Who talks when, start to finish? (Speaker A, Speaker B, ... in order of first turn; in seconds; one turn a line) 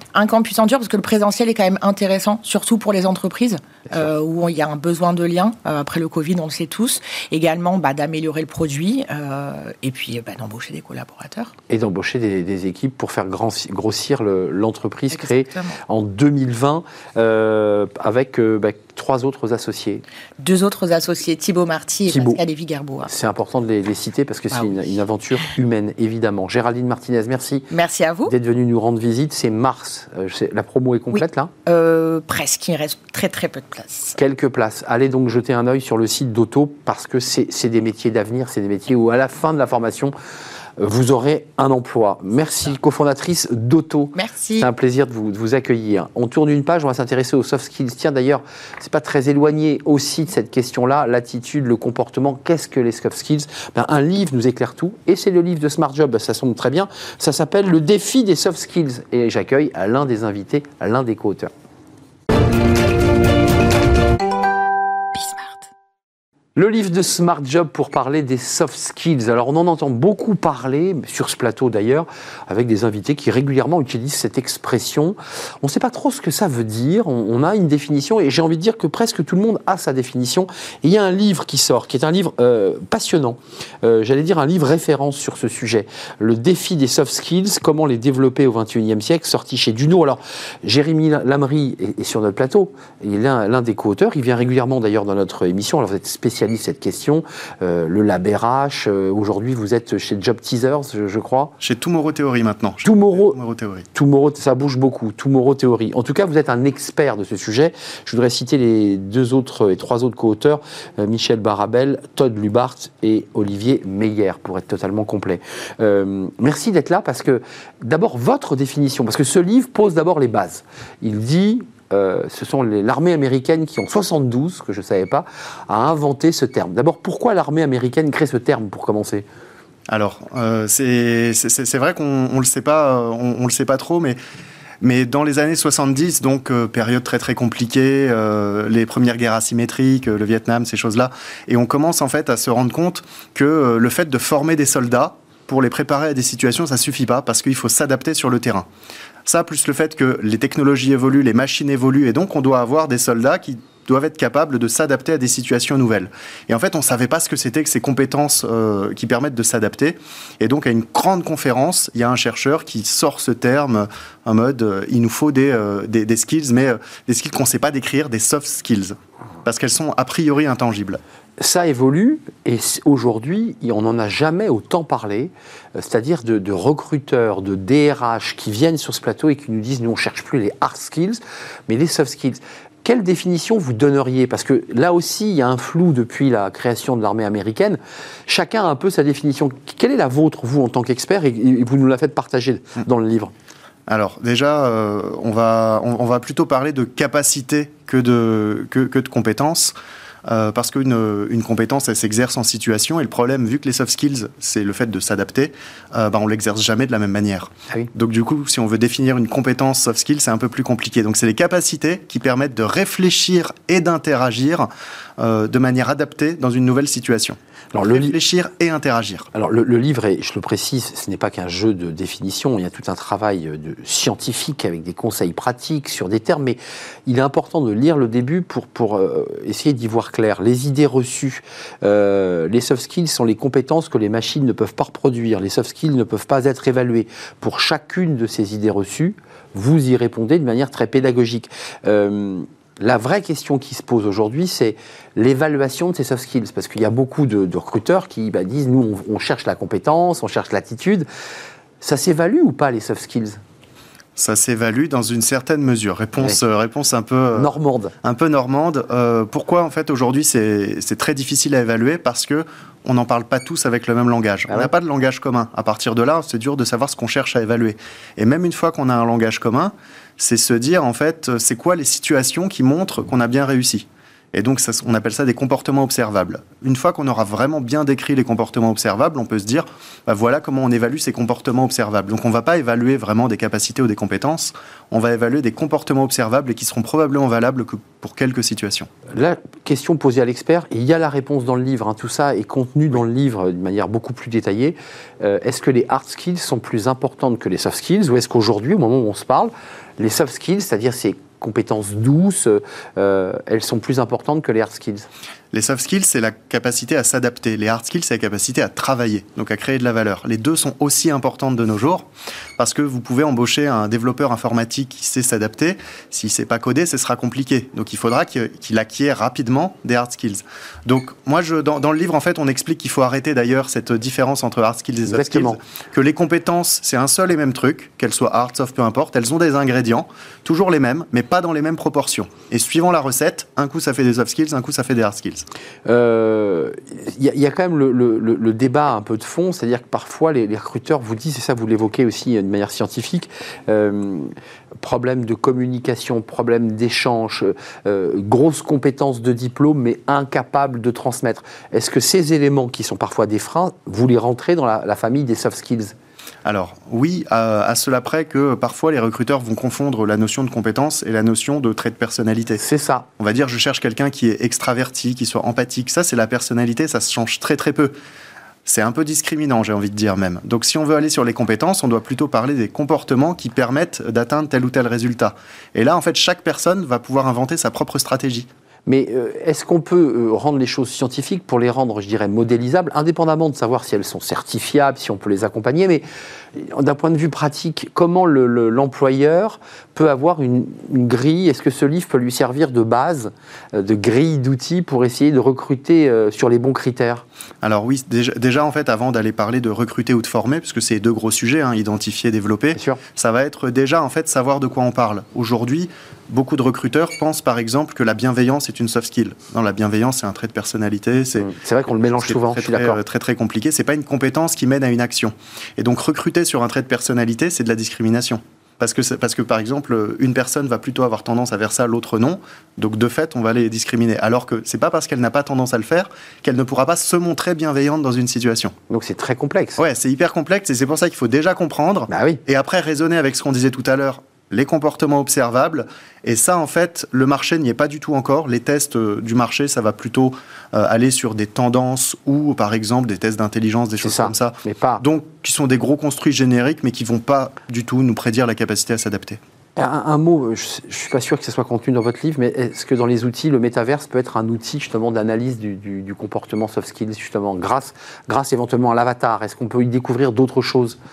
Speaker A: 0.1-11.5
Speaker B: 11.7-20.0
Speaker A: 15.1-15.8
Speaker A: 20.4-23.1
Speaker B: 22.1-22.4
Speaker B: 23.1-27.7
Speaker A: 24.5-24.8
Speaker A: 27.7-28.3
Speaker B: 28.2-31.5
Speaker A: 31.1-34.1
Speaker B: 34.1-40.1
Speaker B: 40.8-61.5
Speaker A: 44.1-44.7
Speaker B: 66.5-101.5
Speaker C: 101.6-103.9
Speaker B: 102.8-103.4
Speaker B: 103.9-129.3
Speaker C: 129.9-134.2
Speaker C: 134.8-148.7
Speaker C: 149.2-171.0
Speaker B: 171.4-193.3
Speaker C: 193.9-199.7
Speaker C: 200.2-219.3
Speaker B: 217.7-218.1
Speaker B: 219.3-251.1
Speaker B: 251.8-253.4
Speaker C: 254.2-257.5
Speaker B: 257.3-257.9
Speaker C: 258.0-288.9
Speaker B: 289.1-305.1
Speaker C: 305.5-335.5
Speaker B: 325.1-325.6
Speaker B: 335.9-355.9
Speaker C: 356.4-362.6
Speaker B: 362.6-363.1
Speaker C: 363.2-367.9
Speaker C: 368.6-378.5
Speaker B: 378.9-397.2
Speaker C: 397.6-411.5
Speaker B: 402.7-403.0
Speaker B: 411.4-413.0
Speaker C: 412.2-428.7
Speaker B: 428.9-429.8
Speaker C: 429.8-449.4
Speaker B: 432.1-432.4
Speaker B: 444.0-445.0
Speaker B: 449.8-461.0